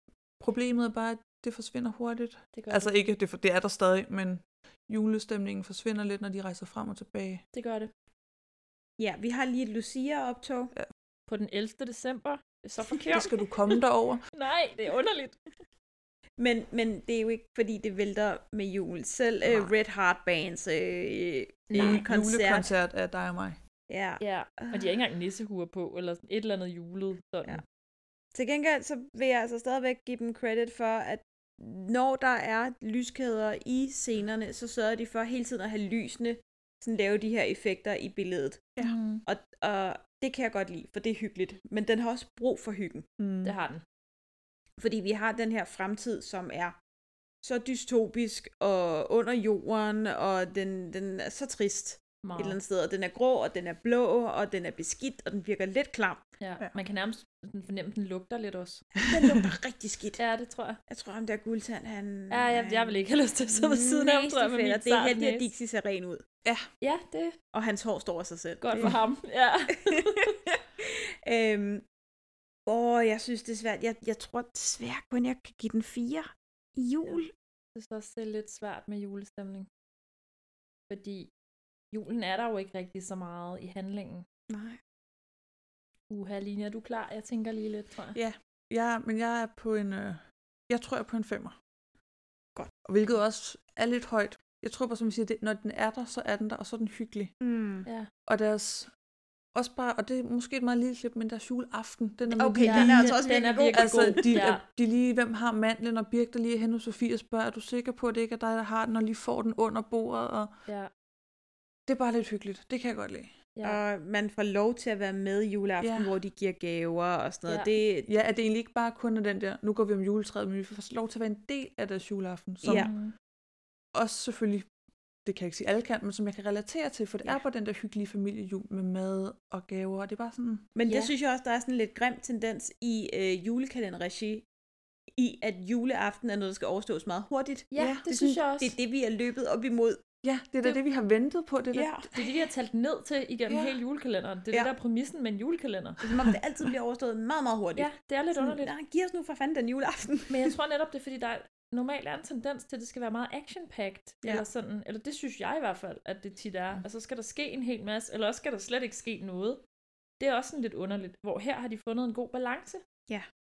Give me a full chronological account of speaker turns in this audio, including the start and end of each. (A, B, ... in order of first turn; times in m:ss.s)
0:00.4-0:07.4 A
0:02.5-0:02.9 B
0:07.5-0:07.9 B
0:09.0-0:10.7 C
0:11.3-0:13.4 B
0:13.1-0:14.2 A
0:14.3-0:15.4 B
0:16.4-0:22.7 C
0:19.4-0:19.7 A
0:21.7-0:22.0 B
0:21.8-0:23.6 A
0:23.9-0:25.0 C
0:24.2-0:27.6 B
0:28.3-0:43.1 C
0:38.8-0:39.2 B
0:43.2-0:43.5 A
0:43.4-0:43.8 B
0:44.8-0:46.8 C
0:47.4-0:56.2 C
0:52.2-0:52.6 B
0:56.4-0:58.9 B
0:59.0-1:00.2 C
0:59.1-0:59.5 A
1:00.2-1:00.8 B
1:00.9-1:06.2 C
1:02.3-1:05.5 B
1:06.8-1:07.4 B
1:07.5-1:09.0 C
1:08.6-1:10.4 B
1:09.9-1:11.8 C
1:12.7-1:17.3 C
1:17.7-1:19.7 B
1:20.9-1:21.3 B
1:21.9-1:24.2 B
1:24.5-1:24.8 C
1:26.1-1:28.2 B
1:28.1-1:31.6 A
1:32.8-1:37.3 A
1:37.4-1:37.9 C
1:38.3-1:38.9 A
1:39.5-1:43.2 A
1:42.3-1:44.4 C
1:42.6-1:44.6 B
1:43.7-1:50.5 A
1:51.9-1:53.3 A
1:53.6-1:58.1 C
1:55.8-1:56.1 A
1:57.5-1:57.7 B
1:58.1-2:02.9 A
2:02.6-2:02.9 C
2:02.7-2:03.1 B
2:03.9-2:04.7 A
2:05.2-2:10.7 A
2:10.8-2:14.4 C
2:10.9-2:11.1 B
2:15.2-2:17.7 C
2:17.7-2:18.7 B
2:17.8-2:18.4 A
2:18.5-2:20.0 C
2:20.2-2:22.1 A
2:21.7-2:22.2 C
2:22.1-2:26.0 B
2:23.5-2:23.8 A
2:26.0-2:30.5 C
2:27.8-2:28.7 B
2:30.3-2:39.6 B
2:40.2-2:42.8 B